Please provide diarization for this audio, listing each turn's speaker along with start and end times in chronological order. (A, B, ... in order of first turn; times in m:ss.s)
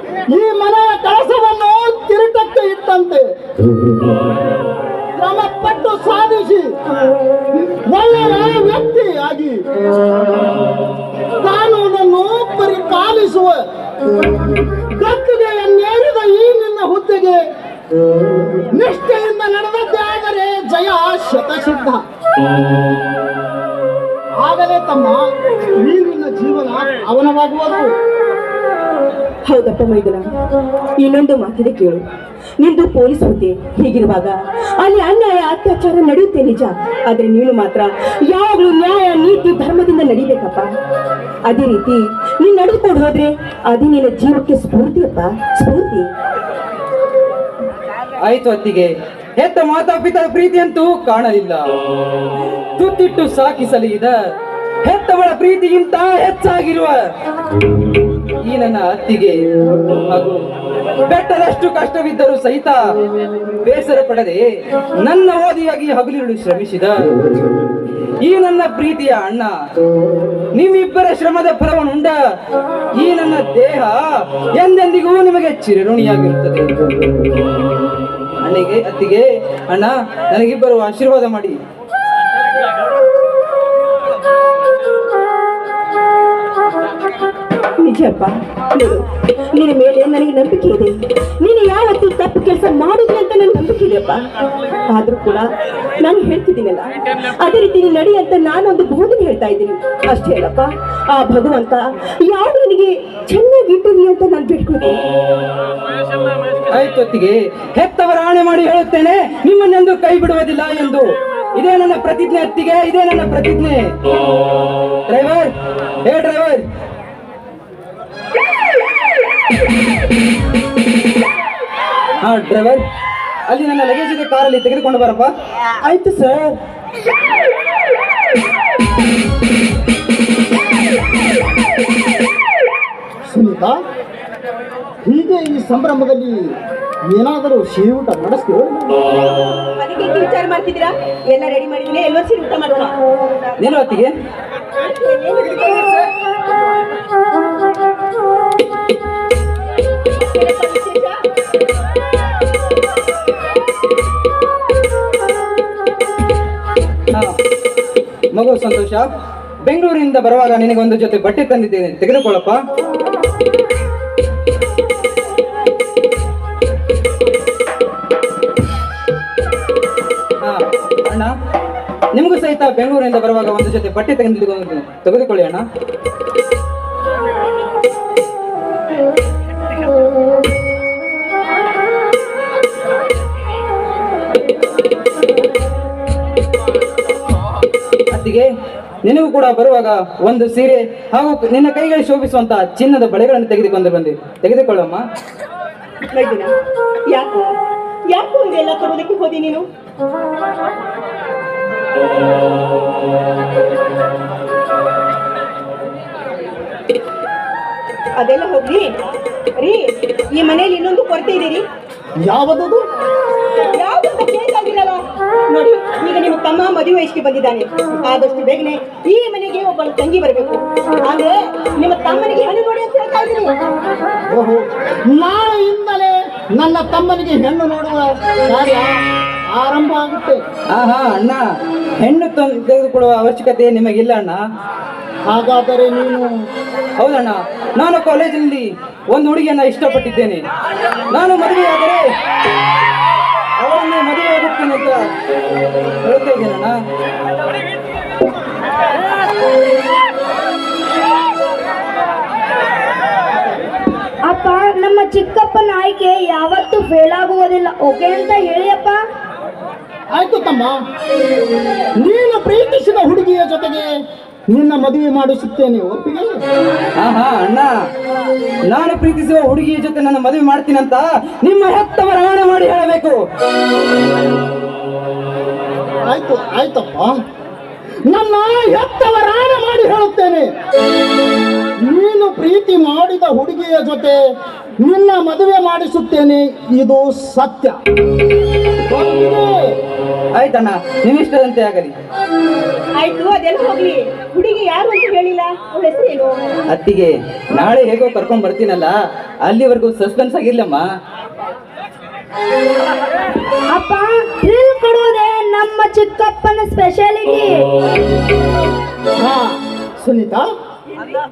0:00.3-0:03.2 A
0:05.1-0:06.8 A
0:07.5-0:09.6 A
0:11.4-0:13.6 A
0:14.9-0:17.4 A
0:18.5-0:22.0 A
0:24.4-0:25.2 A
0:25.8-0:27.9 A
0:29.5-0:30.3 B
0:31.0-0:32.0 B
0:32.6-0:40.7 B
0:41.5-0:46.1 B
0:48.2-0:51.6 C
0:52.8-0:54.2 C
0:54.8-0:57.1 C
0:58.4-0:59.4 C
1:00.1-1:00.4 C
1:01.1-1:02.8 C
1:03.6-1:04.4 C
1:05.0-1:07.1 C
1:08.2-1:09.5 C
1:10.6-1:12.2 C
1:13.0-1:16.7 C
1:18.4-1:21.6 C
1:27.8-1:45.0 B
1:46.7-1:53.9 C
1:55.1-1:55.5 C
1:56.0-1:56.6 C
2:02.2-2:02.8 C
2:03.5-2:05.3 C
2:05.8-2:06.6 A
2:13.2-2:13.8 A
2:15.0-2:16.5 A
2:17.1-2:19.0 A
2:19.8-2:22.9 B
2:23.6-2:24.2 C
2:24.7-2:26.1 B
2:30.1-2:31.2 B
2:38.3-2:39.1 C
2:39.6-2:42.6 C
2:50.4-2:51.3 C
2:52.1-2:55.6 C
3:08.1-3:08.5 C
3:09.0-3:15.0 C
3:16.1-3:16.5 B
3:17.1-3:17.6 B
3:18.1-3:19.7 B
3:28.2-3:28.9 B
3:29.6-3:31.6 B
3:32.2-3:32.9 A
3:33.7-3:43.7 B
3:44.3-3:49.0 A
3:49.5-3:50.4 A
3:50.7-3:51.4 C
3:52.0-3:54.4 C
3:55.3-3:56.3 A
3:57.0-4:00.4 C
4:01.1-4:02.1 C
4:03.6-4:05.1 C
4:06.0-4:06.8 C
4:14.3-4:19.0 D
4:20.1-4:20.8 A
4:22.0-4:23.9 A
4:24.5-4:26.4 A
4:27.0-4:27.7 C
4:28.7-4:33.2 C
4:36.0-4:37.1 A
4:38.0-4:40.5 A
4:41.8-4:44.2 A
4:44.8-4:47.8 A
4:48.9-4:49.6 A
4:50.4-4:51.9 C
4:53.0-4:56.4 B
4:56.7-4:58.9 C
4:59.4-5:00.8 C
5:03.7-5:07.6 D
5:09.2-5:10.5 A